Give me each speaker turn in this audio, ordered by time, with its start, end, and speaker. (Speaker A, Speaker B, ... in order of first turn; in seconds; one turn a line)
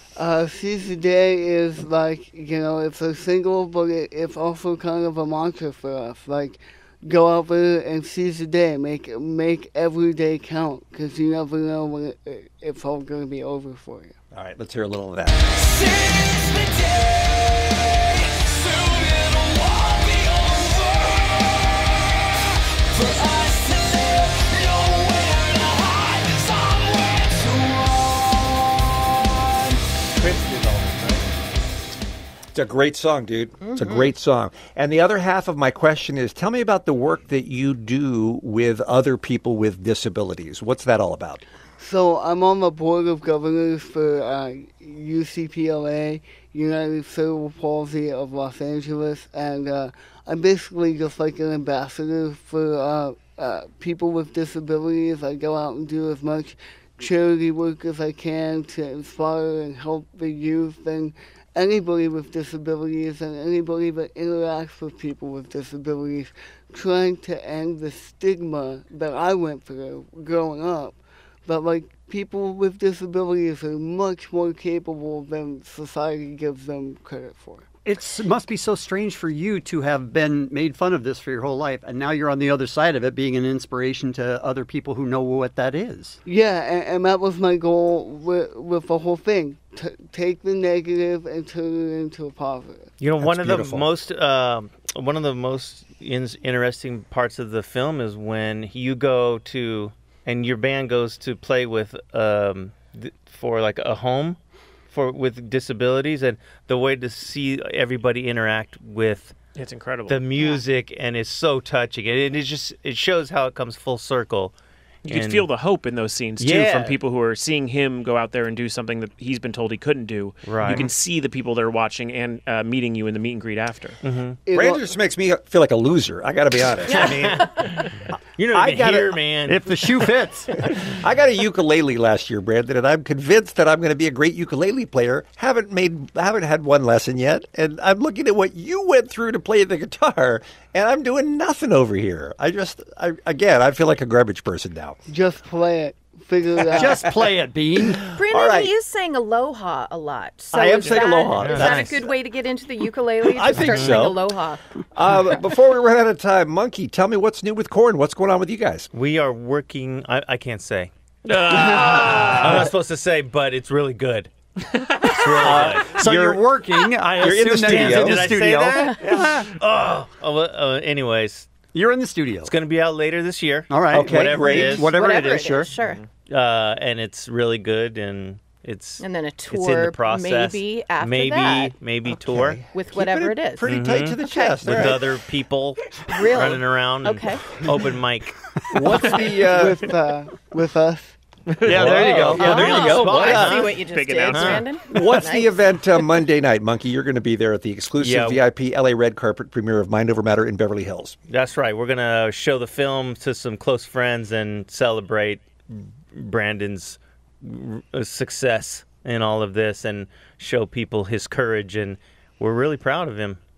Speaker A: 0.1-14.1
Speaker B: 14.3-15.5
Speaker C: 15.9-16.9
Speaker C: 18.6-20.9
Speaker C: 23.0-27.8
Speaker B: 30.1-31.2
Speaker B: 32.5-41.4
Speaker D: 33.7-34.1
Speaker A: 41.8-77.7
Speaker C: 77.8-86.2
Speaker A: 86.2-92.9
Speaker E: 93.0-104.4
Speaker B: 93.2-93.8
Speaker E: 104.9-109.3
Speaker F: 109.5-110.2
Speaker E: 110.1-114.5
Speaker D: 110.3-110.6
Speaker E: 115.0-115.5
Speaker F: 115.0-124.0
Speaker E: 116.4-117.0
Speaker E: 120.4-120.9
Speaker E: 124.0-124.4
Speaker A: 124.5-124.8
Speaker B: 124.5-127.5
Speaker E: 126.9-129.6
Speaker B: 128.5-129.2
Speaker C: 129.5-130.5
Speaker B: 130.6-145.0
Speaker A: 145.1-147.1
Speaker C: 146.7-148.0
Speaker B: 148.1-148.7
Speaker D: 148.1-154.6
Speaker B: 150.5-152.1
Speaker E: 151.3-152.0
Speaker B: 153.2-154.2
Speaker E: 153.6-154.1
Speaker B: 154.9-158.9
Speaker E: 158.9-160.9
Speaker F: 161.2-162.7
Speaker E: 161.5-164.3
Speaker F: 164.7-165.7
Speaker E: 165.1-165.9
Speaker B: 165.4-166.4
Speaker C: 165.9-169.5
Speaker B: 167.2-168.2
Speaker E: 167.6-171.5
Speaker C: 171.7-172.5
Speaker E: 172.4-175.4
Speaker C: 173.7-175.7
Speaker B: 173.9-174.8
Speaker D: 174.5-176.0
Speaker E: 176.2-182.6
Speaker D: 179.0-181.8
Speaker B: 182.1-185.1
Speaker D: 182.7-185.0
Speaker E: 183.6-188.4
Speaker D: 186.0-187.6
Speaker B: 188.7-189.8
Speaker F: 188.9-189.3
Speaker A: 189.4-191.2
Speaker F: 191.5-192.6
Speaker B: 191.6-193.8
Speaker E: 191.7-193.8
Speaker D: 192.3-195.8
Speaker F: 193.1-194.8
Speaker E: 194.3-194.7
Speaker B: 194.9-201.2
Speaker E: 198.0-198.4
Speaker E: 201.3-213.4